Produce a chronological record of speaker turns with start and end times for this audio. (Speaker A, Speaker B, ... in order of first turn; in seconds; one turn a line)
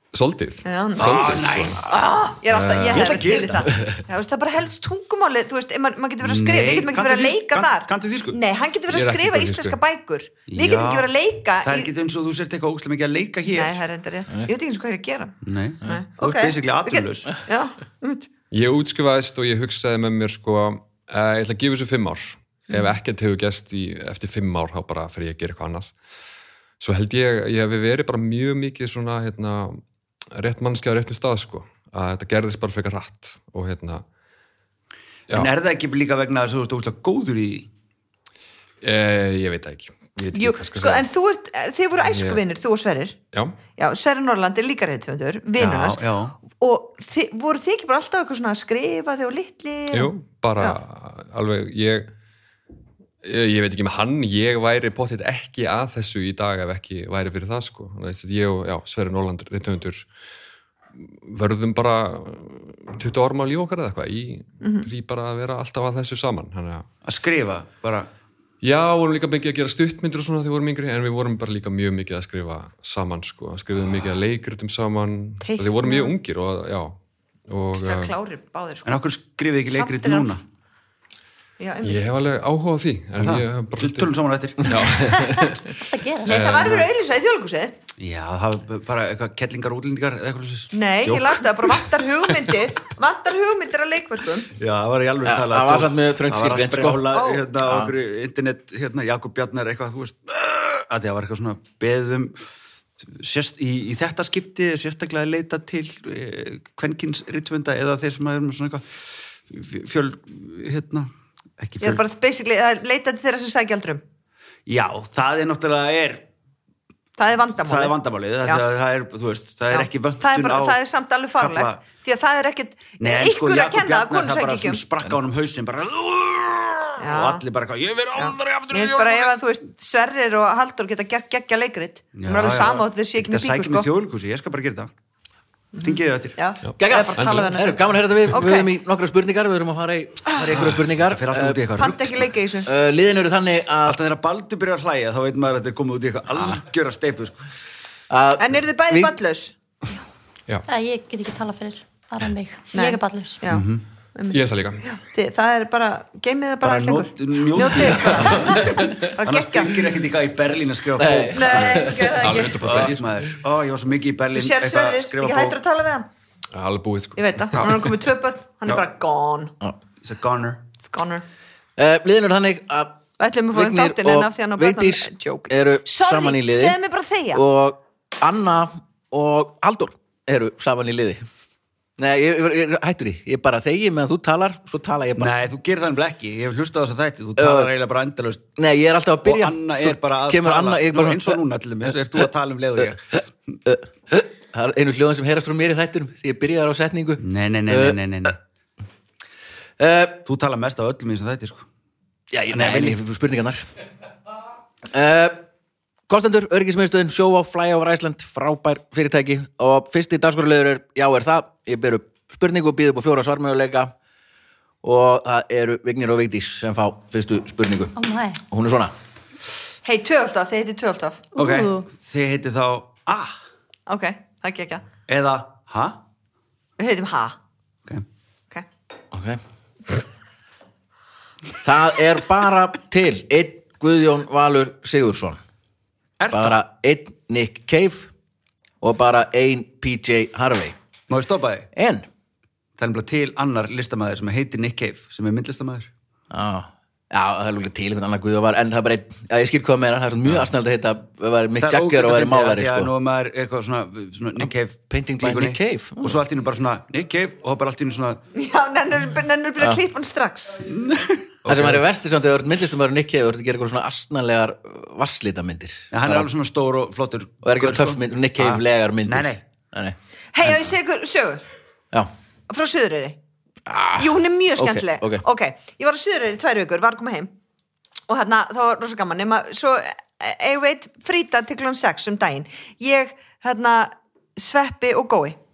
Speaker A: 0.1-1.9
Speaker B: 0.7-11.9
Speaker C: 1.0-2.1
Speaker A: 2.5-3.3
Speaker C: 2.9-3.8
Speaker C: 6.2-8.4
Speaker A: 8.9-9.8
Speaker C: 10.5-11.1
Speaker C: 11.6-13.8
Speaker B: 13.5-18.3
Speaker C: 15.4-17.4
Speaker A: 18.5-25.9
Speaker B: 22.7-22.9
Speaker A: 26.8-29.8
Speaker A: 30.4-34.0
Speaker C: 35.3-37.7
Speaker A: 38.8-41.1
Speaker B: 40.3-43.2
Speaker A: 42.0-42.4
Speaker B: 43.8-50.8
Speaker C: 45.6-46.4
Speaker A: 49.9-52.1
Speaker A: 53.2-60.0
Speaker A: 61.2-66.9
Speaker B: 64.6-64.9
Speaker C: 67.0-68.1
Speaker A: 68.6-77.0
Speaker B: 75.4-76.1
Speaker A: 77.5-78.1
Speaker B: 77.7-79.0
Speaker C: 78.8-80.4
Speaker B: 79.7-80.3
Speaker B: 81.6-82.0
Speaker A: 81.8-85.7
Speaker C: 83.2-84.8
Speaker D: 85.0-86.4
Speaker B: 86.2-87.8
Speaker A: 86.3-86.9
Speaker C: 88.0-91.7
Speaker B: 90.7-94.5
Speaker C: 94.5-102.4
Speaker E: 95.2-97.9
Speaker B: 97.1-97.5
Speaker C: 103.0-112.0
Speaker B: 111.8-114.0
Speaker C: 114.7-116.2
Speaker B: 117.2-118.6
Speaker C: 117.6-120.8
Speaker B: 119.7-124.8
Speaker C: 121.4-121.8
Speaker C: 123.0-129.3
Speaker B: 127.0-127.4
Speaker B: 128.2-133.9
Speaker C: 132.1-134.9
Speaker B: 135.8-138.7
Speaker C: 135.8-136.4
Speaker A: 136.7-137.5
Speaker E: 136.8-141.6
Speaker B: 140.3-140.6
Speaker C: 140.5-142.3
Speaker B: 141.8-142.7
Speaker E: 142.6-144.0
Speaker C: 143.8-147.5
Speaker E: 148.1-149.2
Speaker B: 148.4-149.5
Speaker D: 150.7-153.4
Speaker B: 152.7-159.9
Speaker C: 153.5-153.8
Speaker A: 154.3-154.9
Speaker C: 156.6-165.6
Speaker E: 158.1-159.1
Speaker E: 161.0-162.2
Speaker B: 161.3-162.9
Speaker A: 162.2-163.3
Speaker B: 164.3-166.1
Speaker A: 166.5-167.9
Speaker B: 167.2-169.5
Speaker C: 170.0-170.7
Speaker B: 170.8-171.3
Speaker E: 171.8-176.8
Speaker B: 173.2-177.4
Speaker E: 177.3-181.2
Speaker E: 182.0-185.3
Speaker C: 185.2-188.5
Speaker E: 187.4-187.7
Speaker E: 188.6-192.2
Speaker C: 189.2-193.6
Speaker E: 193.7-198.0
Speaker C: 197.2-198.4
Speaker E: 199.8-200.2
Speaker C: 200.2-201.7
Speaker E: 202.3-203.6
Speaker C: 202.5-203.0
Speaker E: 204.9-205.4
Speaker E: 206.1-213.9
Speaker E: 214.8-217.9
Speaker D: 217.9-218.4
Speaker E: 218.5-218.9
Speaker B: 219.8-221.3
Speaker D: 221.3-221.9
Speaker C: 221.3-223.4
Speaker B: 223.9-224.9
Speaker C: 225.1-226.0
Speaker B: 226.8-227.4
Speaker E: 229.1-229.4
Speaker E: 231.6-235.4
Speaker C: 236.2-236.6
Speaker E: 236.3-238.1
Speaker E: 238.8-240.8
Speaker C: 241.1-241.7
Speaker E: 241.8-242.1
Speaker C: 242.8-245.9
Speaker E: 246.3-252.9
Speaker C: 251.6-258.2
Speaker E: 254.4-256.2
Speaker B: 258.3-260.6
Speaker C: 260.6-261.9
Speaker E: 261.5-266.3
Speaker C: 265.9-269.4
Speaker E: 267.4-270.6
Speaker B: 270.3-271.4
Speaker B: 272.5-273.2
Speaker E: 273.7-275.2
Speaker B: 274.0-277.3
Speaker B: 278.1-285.4